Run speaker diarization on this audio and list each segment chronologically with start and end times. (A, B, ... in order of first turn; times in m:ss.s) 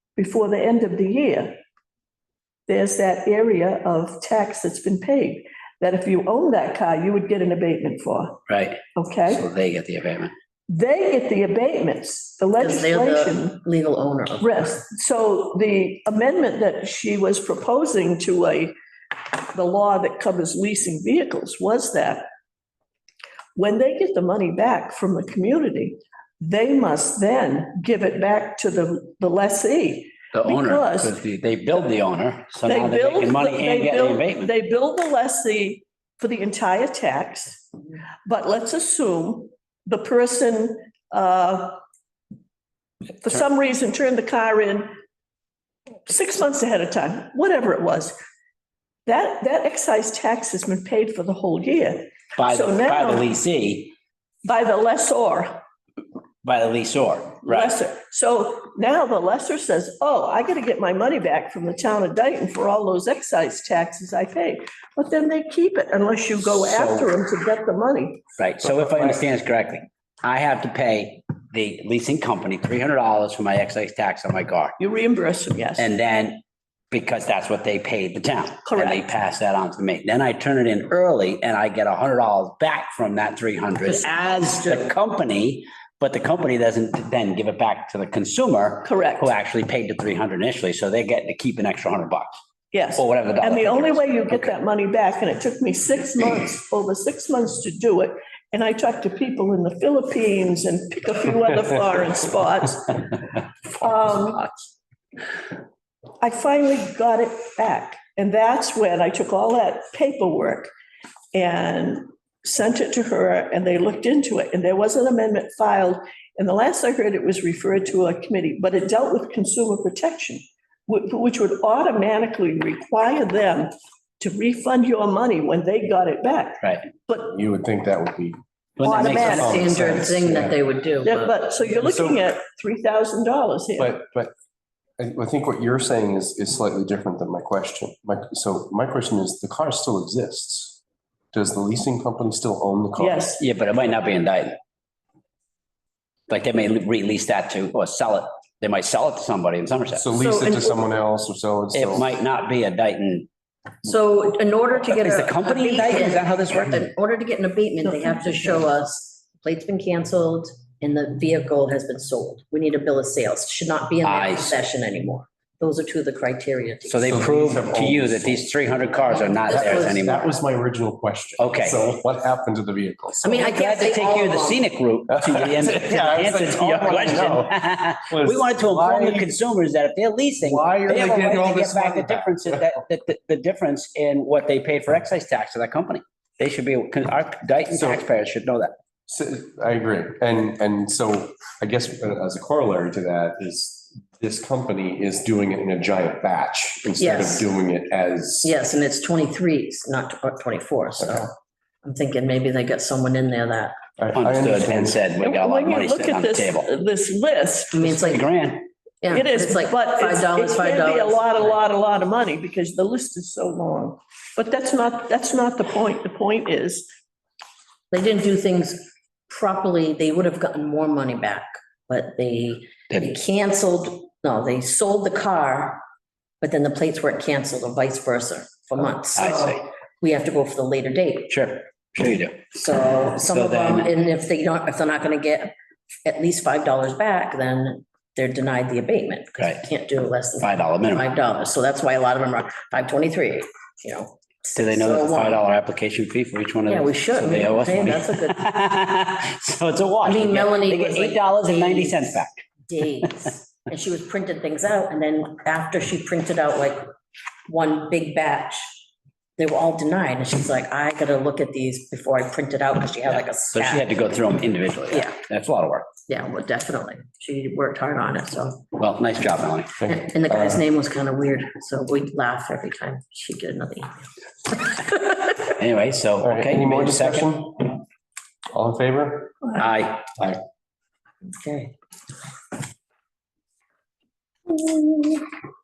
0:00.2-0:01.6 A
0:02.7-0:08.4 A
0:08.5-0:10.3 B
0:09.0-0:09.4 A
0:10.7-0:13.6 A
0:12.6-0:14.7 C
0:14.4-0:18.7 A
0:19.5-0:22.3 A
0:23.6-0:31.2 A
0:30.3-0:34.5 B
0:32.7-0:37.7 A
0:38.3-0:41.8 A
0:43.2-0:45.0 A
0:46.0-0:48.2 A
0:49.1-0:53.3 A
0:52.4-0:54.0 B
0:54.4-0:55.6 A
0:56.4-0:57.7 B
0:57.4-1:08.2 A
1:06.4-1:07.1 B
1:08.4-1:14.8 B
1:14.8-1:15.9 A
1:15.8-1:32.4 B
1:18.6-1:19.0 A
1:23.8-1:24.9 C
1:28.8-1:29.3 A
1:32.7-1:43.0 A
1:33.0-1:34.5 B
1:43.7-1:44.5 A
1:46.2-1:50.7 A
1:51.3-2:07.3 A
2:07.3-2:08.4 D
2:08.8-2:10.1 B
2:08.8-2:09.6 A
2:09.1-2:11.3 C
2:09.4-2:10.6 D
2:11.0-2:14.0 A
2:11.8-2:12.2 D
2:13.8-2:14.3 D
2:15.0-2:20.8 D
2:21.3-2:23.3 D
2:23.0-2:23.4 A
2:23.4-2:24.6 B
2:26.3-2:30.1 B
2:30.0-2:32.1 D
2:30.1-2:30.8 C
2:31.7-2:33.3 B
2:33.8-2:47.2 C
2:34.9-2:36.9 B
2:44.0-2:44.6 B
2:46.9-2:50.3 B
2:47.1-2:48.5 D
2:49.1-2:50.1 C
2:49.5-2:53.4 D
2:51.4-2:51.8 B
2:53.2-2:54.6 C
2:53.3-3:08.8 B
2:55.1-2:57.5 D
2:58.1-2:59.3 D
3:00.4-3:02.6 D
3:07.7-3:08.0 D
3:09.1-3:18.6 D
3:17.0-3:17.5 C
3:18.4-3:21.3 C
3:21.8-3:23.8 C
3:24.0-3:25.0 D
3:24.2-3:26.7 B
3:25.2-3:27.9 A
3:27.7-3:28.3 C
3:27.8-3:28.7 B
3:29.0-3:31.6 C
3:29.1-3:36.9 A
3:37.9-3:45.8 C
3:42.9-3:43.2 B
3:46.4-3:51.3 C
3:49.2-3:49.6 B
3:51.3-3:52.6 B
3:52.5-3:55.5 C
3:53.2-3:53.9 B
3:56.0-4:05.4 C
3:59.4-3:59.7 B
4:00.4-4:01.1 B
4:04.6-4:12.4 B
4:06.7-4:08.4 C
4:10.0-4:12.1 C
4:12.7-4:16.9 C
4:17.5-4:18.7 C
4:19.4-4:23.9 C
4:23.1-4:25.9 B
4:26.1-4:28.7 C
4:28.8-4:29.8 B
4:29.8-4:30.6 D
4:29.9-4:35.4 C
4:35.4-4:37.3 B
4:36.2-4:37.8 D
4:38.5-4:39.4 D
4:39.6-4:40.4 B
4:41.3-4:41.8 C
4:44.5-4:45.3 C